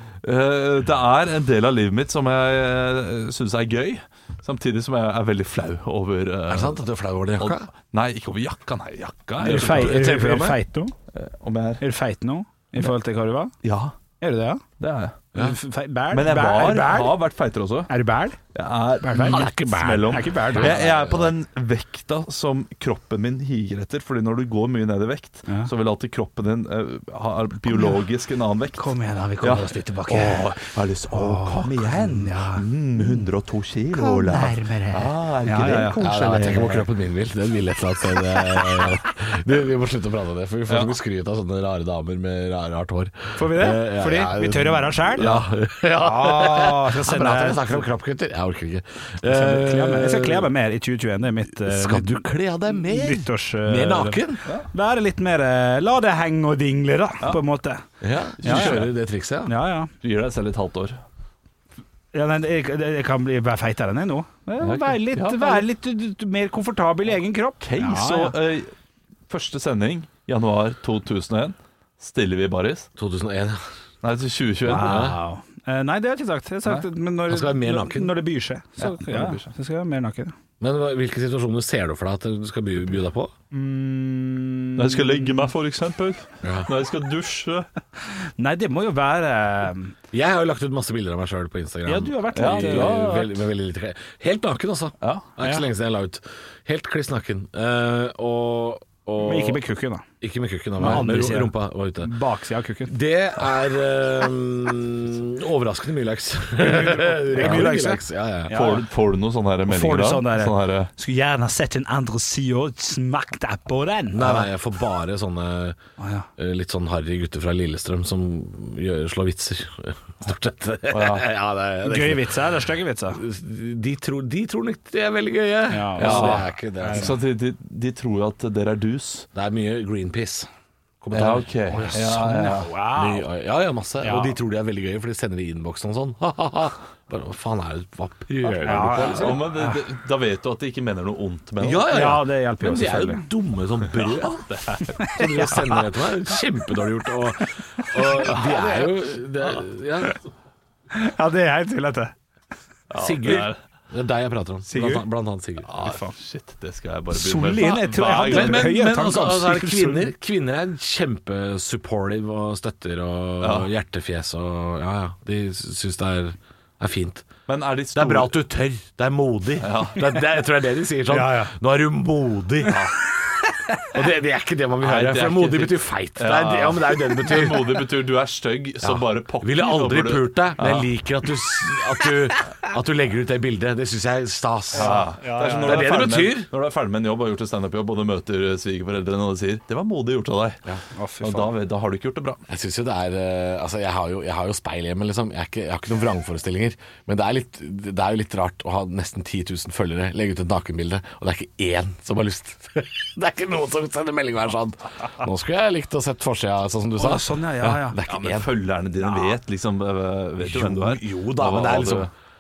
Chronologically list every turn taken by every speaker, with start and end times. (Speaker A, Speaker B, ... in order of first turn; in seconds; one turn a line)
Speaker A: 0.2-6.8
Speaker B: 6.5-7.7
Speaker A: 7.4-10.1
Speaker B: 9.4-10.6
Speaker C: 9.4-10.9
Speaker A: 11.1-11.8
Speaker C: 11.8-13.5
Speaker A: 13.6-13.9
Speaker C: 14.2-14.6
Speaker A: 14.8-15.3
Speaker C: 15.3-17.2
Speaker A: 16.1-17.9
Speaker C: 17.9-18.4
Speaker A: 18.5-36.9
Speaker C: 19.0-20.8
Speaker B: 19.2-21.3
Speaker C: 27.7-28.0
Speaker C: 28.8-30.5
Speaker C: 31.1-33.2
Speaker C: 33.9-36.0
Speaker B: 36.0-50.5
Speaker C: 43.4-45.5
Speaker C: 46.0-47.9
Speaker C: 49.2-57.8
Speaker B: 51.6-54.5
Speaker B: 58.0-59.5
Speaker A: 58.4-58.9
Speaker C: 58.4-58.9
Speaker C: 59.5-59.9
Speaker A: 60.0-61.0
Speaker C: 62.1-68.4
Speaker A: 64.6-65.7
Speaker A: 67.6-68.7
Speaker A: 69.3-72.9
Speaker B: 73.0-73.6
Speaker A: 74.0-75.1
Speaker C: 74.7-80.3
Speaker B: 74.8-75.2
Speaker B: 77.3-78.2
Speaker A: 78.8-79.5
Speaker B: 80.6-83.3
Speaker C: 83.5-85.5
Speaker A: 84.8-87.7
Speaker B: 86.4-86.7
Speaker C: 88.1-90.0
Speaker B: 90.1-99.6
Speaker C: 91.8-93.3
Speaker A: 92.3-93.3
Speaker A: 95.0-95.3
Speaker C: 99.2-100.1
Speaker B: 100.2-102.1
Speaker C: 100.8-103.0
Speaker A: 100.8-101.1
Speaker B: 102.9-108.6
Speaker C: 106.6-108.9
Speaker A: 108.5-110.9
Speaker C: 109.7-114.5
Speaker B: 114.1-115.8
Speaker C: 116.0-116.3
Speaker B: 116.4-122.4
Speaker A: 120.9-121.3
Speaker C: 121.8-123.2
Speaker B: 123.1-127.2
Speaker C: 125.7-127.2
Speaker A: 126.0-129.3
Speaker B: 129.3-130.5
Speaker B: 131.0-132.1
Speaker A: 131.1-132.7
Speaker C: 131.9-133.3
Speaker B: 132.9-139.5
Speaker C: 134.0-134.4
Speaker C: 138.6-139.8
Speaker A: 138.9-142.0
Speaker B: 141.6-144.4
Speaker C: 141.9-143.2
Speaker A: 143.9-145.1
Speaker C: 144.8-145.8
Speaker B: 145.1-150.2
Speaker C: 148.0-149.1
Speaker C: 150.9-152.1
Speaker A: 152.9-153.6
Speaker B: 152.9-155.7
Speaker C: 154.7-155.1
Speaker A: 155.7-158.8
Speaker C: 155.8-156.1
Speaker C: 157.1-160.1
Speaker B: 158.2-167.3
Speaker A: 163.4-163.7
Speaker A: 167.5-168.4
Speaker B: 167.9-172.8
Speaker A: 169.6-170.4
Speaker C: 171.1-171.5
Speaker A: 172.7-173.0
Speaker C: 173.3-173.9
Speaker B: 173.9-177.9
Speaker A: 174.8-180.9
Speaker B: 178.8-186.5
Speaker C: 184.7-185.9
Speaker A: 184.8-190.6
Speaker C: 190.9-191.5
Speaker A: 191.2-192.4
Speaker B: 192.5-208.5
Speaker C: 207.0-208.0
Speaker A: 207.6-212.1
Speaker C: 209.0-209.4
Speaker B: 210.4-212.1